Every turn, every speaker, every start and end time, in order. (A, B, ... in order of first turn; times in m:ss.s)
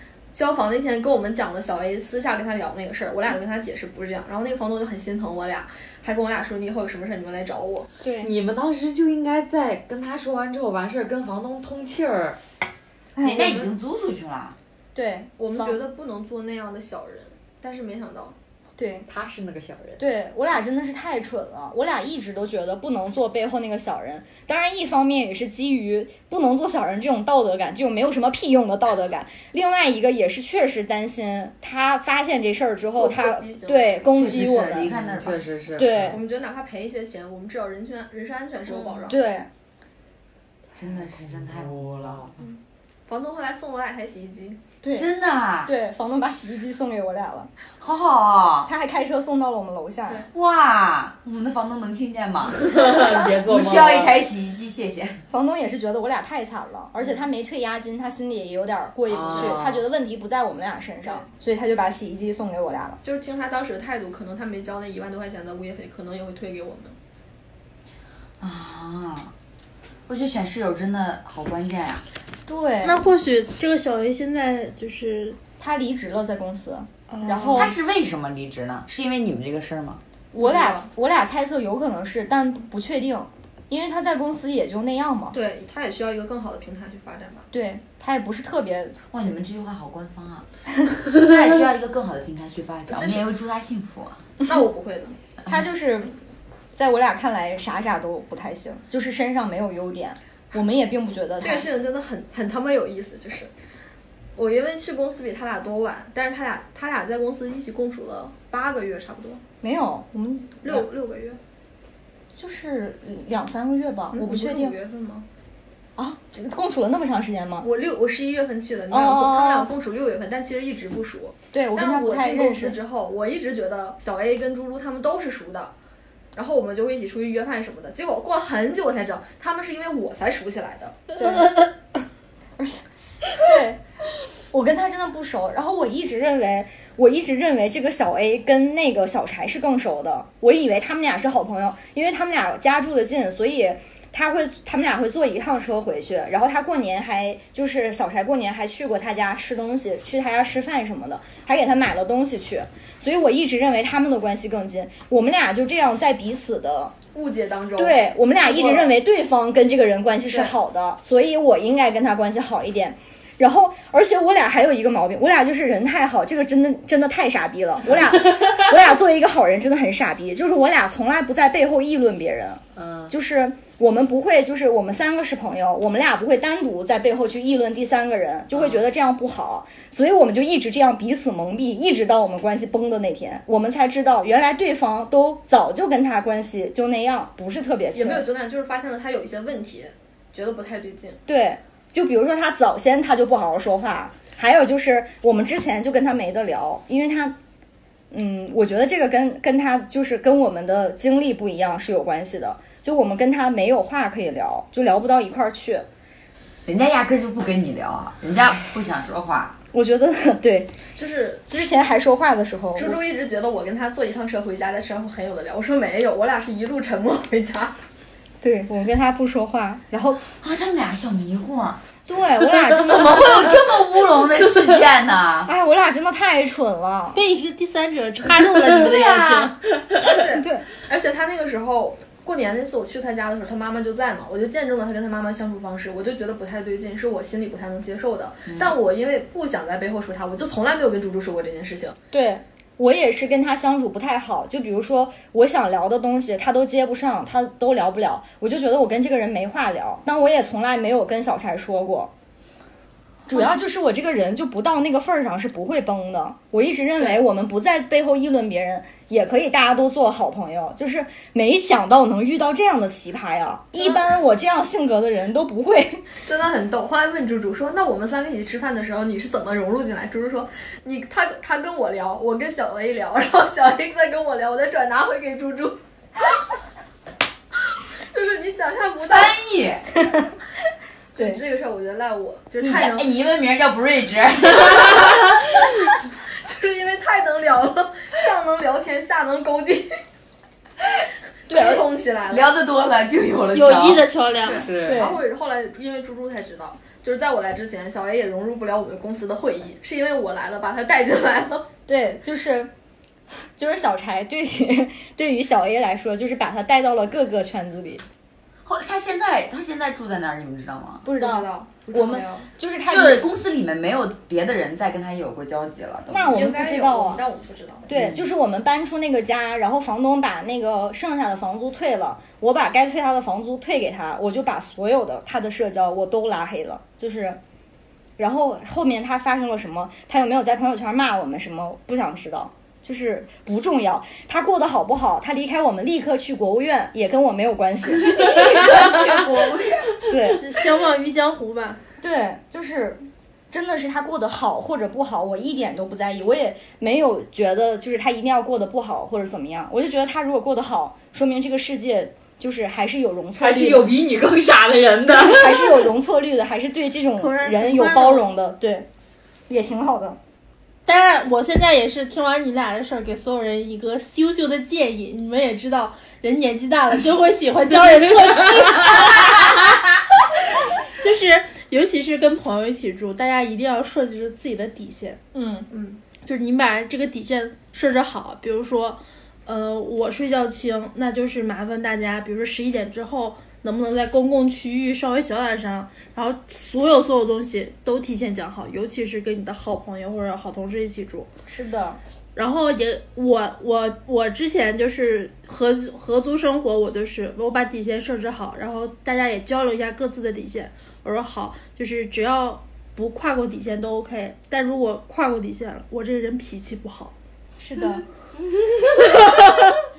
0:00.3-0:07.9 A
0:08.0-0:08.3 B
0:08.2-0:12.4 C
0:13.2-0:13.7 B
0:13.2-0:14.6 D
0:15.0-0:15.8 B
0:15.4-0:18.4 A
0:18.8-0:19.1 B
0:19.1-0:20.0 C
0:20.0-0:34.9 B
0:33.0-0:34.3 A
0:34.1-0:35.5 D
0:34.8-0:36.2 C
0:35.8-0:36.2 B
0:36.1-0:39.2 A
0:38.7-0:39.5 B
0:40.8-0:42.3 D
0:40.8-0:42.4 C
0:43.1-0:44.6 A
0:44.8-0:45.1 B
0:44.9-0:45.7 D
0:45.6-0:47.5 B
0:47.8-0:48.7 D
0:48.7-0:50.3 B
0:50.3-0:55.2 D
0:52.6-0:54.2 C
0:55.3-1:03.0 B
0:59.1-0:59.8 C
1:03.0-1:07.0 A
1:08.4-1:09.3 D
1:10.1-1:12.0 D
1:12.5-1:13.0 B
1:12.8-1:15.4 E
1:15.6-1:17.8 B
1:17.1-1:17.7 E
1:17.5-1:20.0 D
1:20.3-1:25.4 B
1:20.4-1:20.9 A
1:25.3-1:27.5 A
1:27.5-1:29.1 B
1:29.1-1:30.5 D
1:31.1-1:34.3 D
1:32.9-1:33.3 A
1:34.4-1:35.2 A
1:35.5-1:36.1 B
1:36.8-1:41.7 B
1:41.4-1:43.5 A
1:44.4-1:49.4 A
1:49.6-1:50.9 B
1:50.6-1:51.4 A
1:52.4-1:54.8 B
1:54.1-1:55.3 A
1:56.0-1:57.7 B
1:57.6-2:05.7 A
1:58.9-1:59.7 B
2:01.5-2:02.8 B
2:06.4-2:11.1 A
2:11.2-2:11.6 B
2:11.4-2:11.7 E
2:13.3-2:13.8 B
2:14.5-2:37.0 B
2:37.1-2:39.0 A
2:37.8-3:08.3 B
2:40.3-2:40.5 A
2:52.8-2:53.1 C
2:58.5-2:58.8 C
3:07.9-3:11.2 A
3:11.3-3:17.4 B
3:18.1-3:25.9 B
3:26.7-3:29.6 D
3:29.7-3:30.7 B
3:31.0-3:31.4 A
3:31.5-3:33.0 B
3:32.8-3:37.8 A
3:38.4-3:40.3 B
3:40.4-3:41.8 D
3:42.1-3:43.6 B
3:42.8-3:45.5 D
3:45.5-3:47.2 B
3:47.1-3:49.6 E
3:48.7-3:49.5 D
3:50.0-4:02.0 A
3:50.3-3:50.7 B
3:58.5-3:58.7 D
4:02.1-4:12.1 B
4:13.3-4:26.1 B
4:13.3-4:13.6 A
4:23.8-4:24.0 A
4:26.2-4:35.8 A
4:38.1-4:39.4 A
4:39.1-4:39.9 D
4:40.0-4:40.3 B
4:41.1-4:43.1 A
4:42.6-4:45.3 D
4:46.3-4:49.9 A
4:51.5-4:51.8 B
4:51.5-4:52.5 A
4:52.3-4:54.1 D
4:53.5-4:54.7 E
4:54.4-5:01.7 A
4:54.5-4:55.0 C
4:54.8-4:55.2 B
5:01.9-5:02.7 B
5:03.6-5:08.0 B
5:08.6-5:11.1 D
5:11.0-5:13.3 B
5:11.1-5:12.5 A
5:12.9-5:16.6 D
5:16.1-5:17.2 B
5:16.3-5:17.9 A
5:17.9-5:27.4 B
5:17.9-5:18.3 D
5:28.2-5:38.2 B
5:38.0-5:39.9 D
5:40.1-5:40.4 B
5:40.4-5:41.8 E
5:42.0-5:53.9 B
5:53.4-5:55.9 C
5:55.1-5:58.9 B
5:57.2-5:58.3 E
5:59.5-6:00.2 B
6:00.9-6:10.0 E
6:10.8-6:31.3 E
6:15.7-6:16.0 A
6:31.5-6:32.0 B
6:32.4-6:47.1 E
6:47.6-6:48.0 B
6:49.0-6:49.5 B